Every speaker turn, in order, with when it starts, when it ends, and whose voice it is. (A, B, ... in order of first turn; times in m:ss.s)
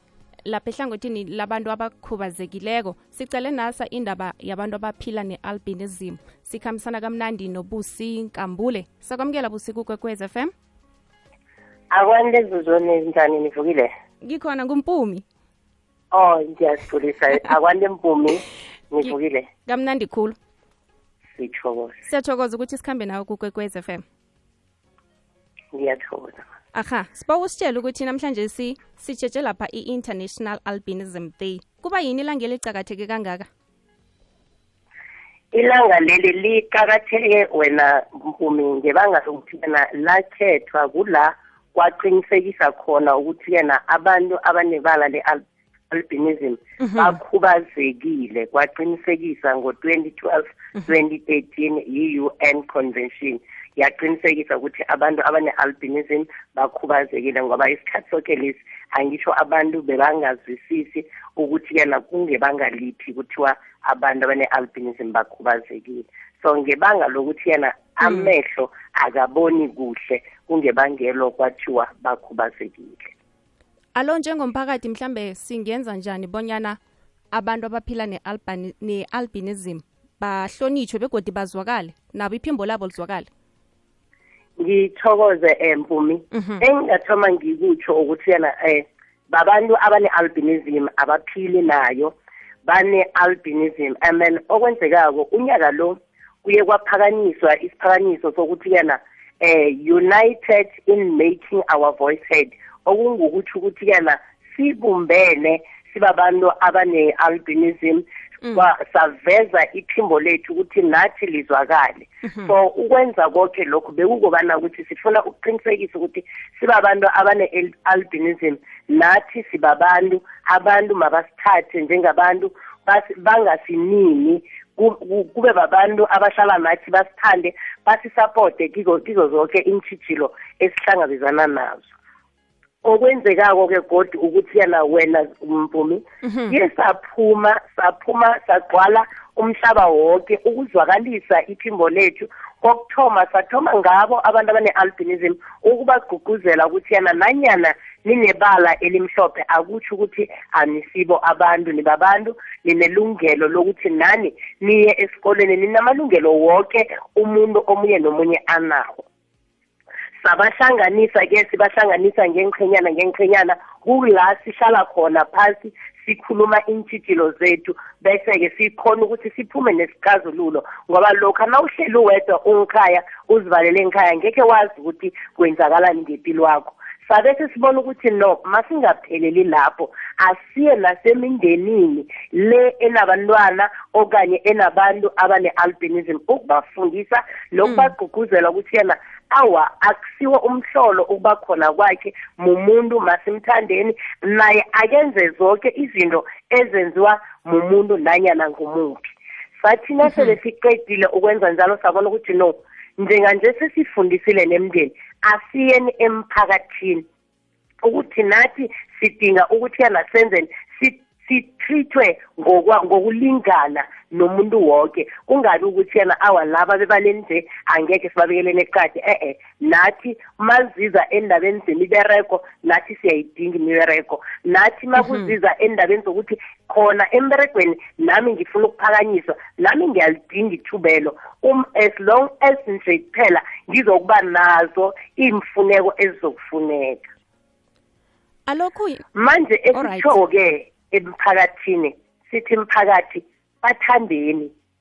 0:00.4-0:10.5 A
0:11.9-0:13.9 B
0:14.2-0:15.2 A
0:16.1-0:19.5 B
0:19.6-0:20.4 A
0:21.4-0:22.0 B
0:22.0-0:24.0 A
0:25.7-0:26.4 B
0:26.7-0:33.5 A
0:35.5-1:13.1 B
0:46.8-0:47.2 A
1:08.0-1:08.3 A
1:13.9-1:16.8 A
1:17.3-1:23.3 A
1:24.6-1:32.1 B
1:26.3-1:26.6 A
1:32.6-2:11.9 B
1:52.2-1:52.5 A
2:12.8-2:39.0 B
2:16.2-2:16.6 A
2:40.2-3:27.0 B
3:07.6-3:07.9 A
3:20.0-3:20.3 A
3:27.8-3:57.1 B
3:45.0-3:45.3 A
3:58.5-3:59.0 A
3:59.1-4:04.5 B
3:59.7-4:00.2 A